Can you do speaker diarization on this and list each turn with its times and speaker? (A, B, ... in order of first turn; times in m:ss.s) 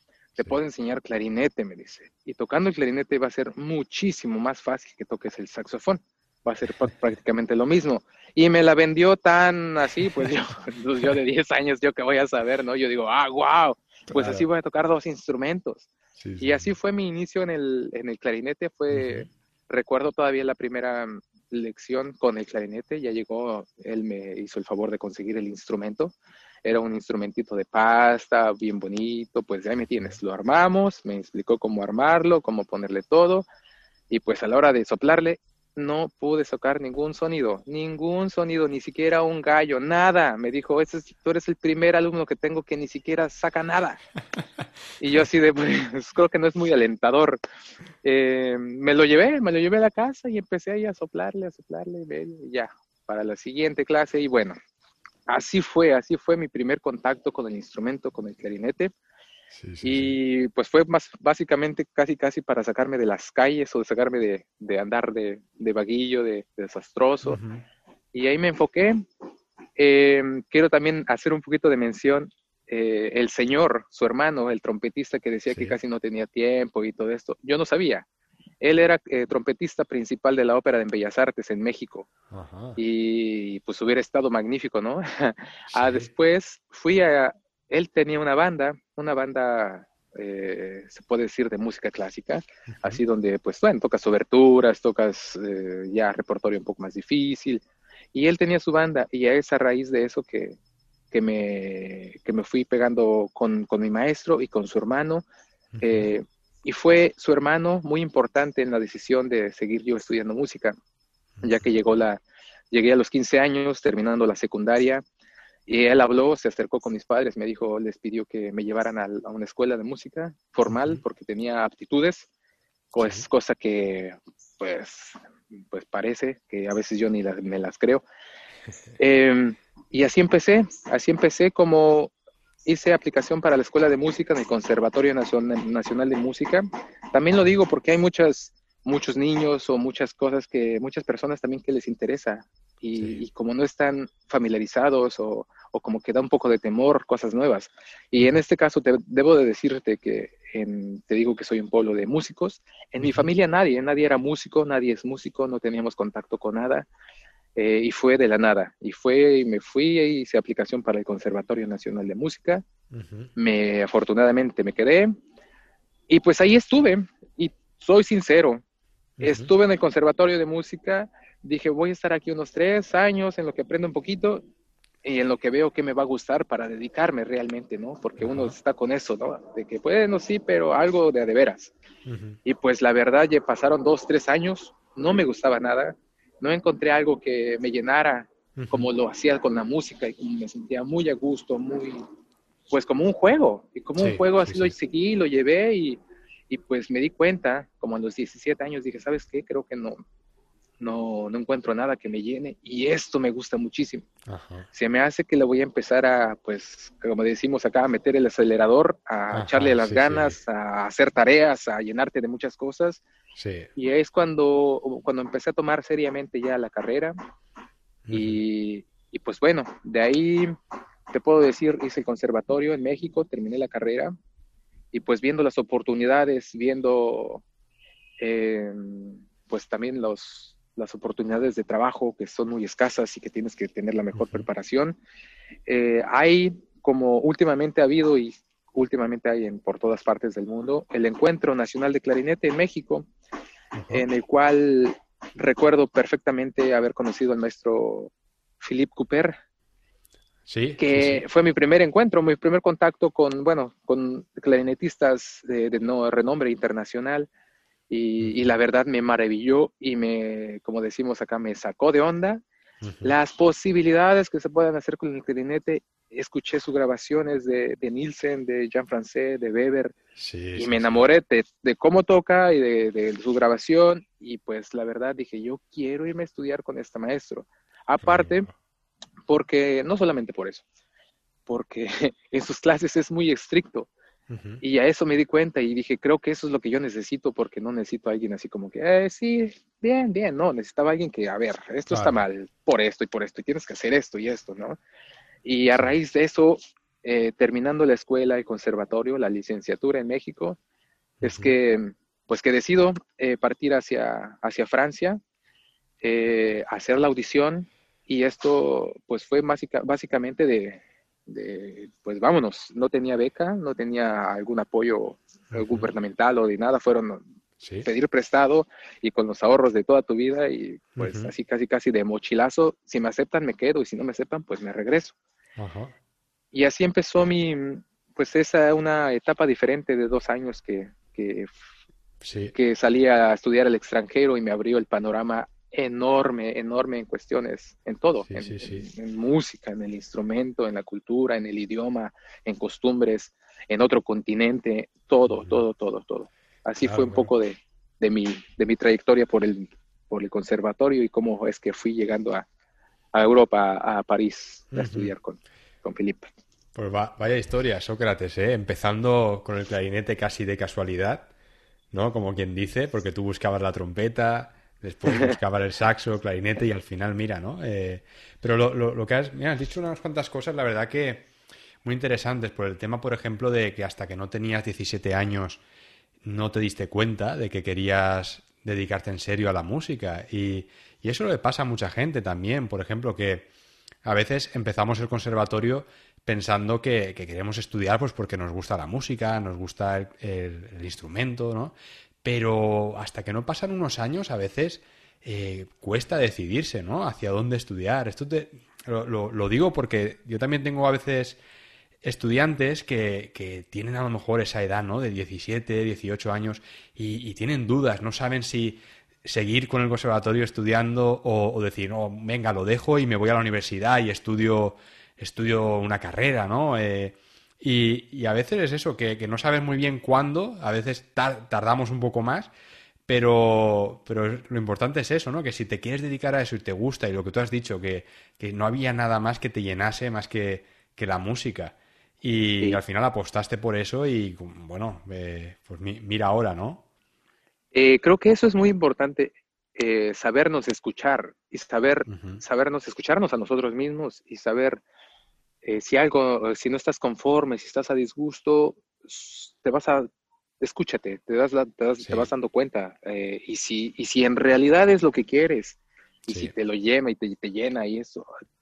0:00.4-0:15.9 A
0:14.1-0:14.4 B
0:16.2-0:16.7 B
0:16.4-0:33.5 A
0:18.9-0:19.3 B
0:34.1-0:44.0 A
0:45.0-0:47.4 A
0:48.0-0:54.5 A
0:55.3-0:58.9 A
0:59.5-1:00.2 B
0:59.8-1:07.4 A
1:07.2-1:07.6 B
1:08.1-1:09.0 A
1:09.8-1:18.0 A
1:15.5-1:15.8 B
1:18.6-1:22.1 A
1:22.3-1:22.8 B
1:22.8-1:40.6 A
1:25.7-1:26.1 B
1:32.7-1:33.0 B
1:41.1-1:45.2 A
1:45.7-1:46.0 B
1:45.8-1:50.7 A
1:51.4-1:55.0 A
1:55.6-2:02.3 A
2:00.7-2:01.0 B
2:02.9-2:03.2 B
2:02.9-2:08.0 A
2:09.0-2:12.1 A
2:12.6-2:36.9 A
2:23.0-2:23.2 B
2:37.6-2:42.6 A
2:42.9-2:43.3 B
2:43.4-2:45.1 A
2:46.1-2:48.6 A
2:49.2-2:49.5 B
2:49.2-2:54.4 A
2:55.0-3:01.7 A
2:58.2-2:58.6 B
3:02.0-3:02.4 B
3:02.4-3:12.0 A
3:08.6-3:08.9 B
3:12.7-3:20.0 A
3:14.0-3:14.7 B
3:20.8-3:24.0 A
3:24.2-3:24.7 B
3:24.7-3:33.0 A
3:29.3-3:30.4 B
3:33.4-3:33.7 B
3:33.8-3:37.1 A
3:38.0-3:38.4 B
3:38.1-3:40.6 A
3:41.1-3:44.1 A
3:44.9-3:47.4 A
3:48.2-3:55.0 A
3:54.1-3:54.4 B
3:55.7-4:03.1 A
4:03.7-4:04.0 B
4:03.9-4:09.3 A
4:10.5-4:11.2 B
4:10.8-4:17.3 A
4:17.9-4:22.4 A
4:18.2-4:18.5 B
4:22.8-4:23.2 B
4:23.0-4:29.9 A
4:30.2-4:31.1 B
4:30.6-4:38.5 A
4:38.0-4:38.5 B
4:39.3-4:40.6 A
4:41.5-4:43.9 A
4:44.3-4:44.6 B
4:44.6-4:54.8 A
4:51.9-4:52.3 B
4:55.4-5:00.6 A
5:01.2-5:01.5 B
5:01.2-5:05.2 A
5:06.0-5:17.2 A
5:15.5-5:15.9 B
5:17.6-5:17.9 B
5:17.8-5:25.1 A
5:21.0-5:21.3 B
5:25.6-5:25.9 B
5:26.5-5:31.5 A
5:32.2-5:32.5 B
5:32.5-5:52.4 A
5:38.2-5:38.9 B
5:45.3-5:45.6 B
5:46.8-5:47.3 B
5:53.1-5:56.3 A
5:54.7-5:55.1 B
5:56.7-6:01.3 B
6:01.9-6:11.3 B
6:11.8-6:15.6 B
6:16.2-6:23.5 B
6:24.0-6:41.4 B
6:42.0-7:02.5 B
7:03.1-7:16.8 B
7:17.7-7:24.8 A
7:22.1-7:22.4 B
7:25.6-7:30.1 A
7:30.6-7:38.3 A
7:32.0-7:32.3 B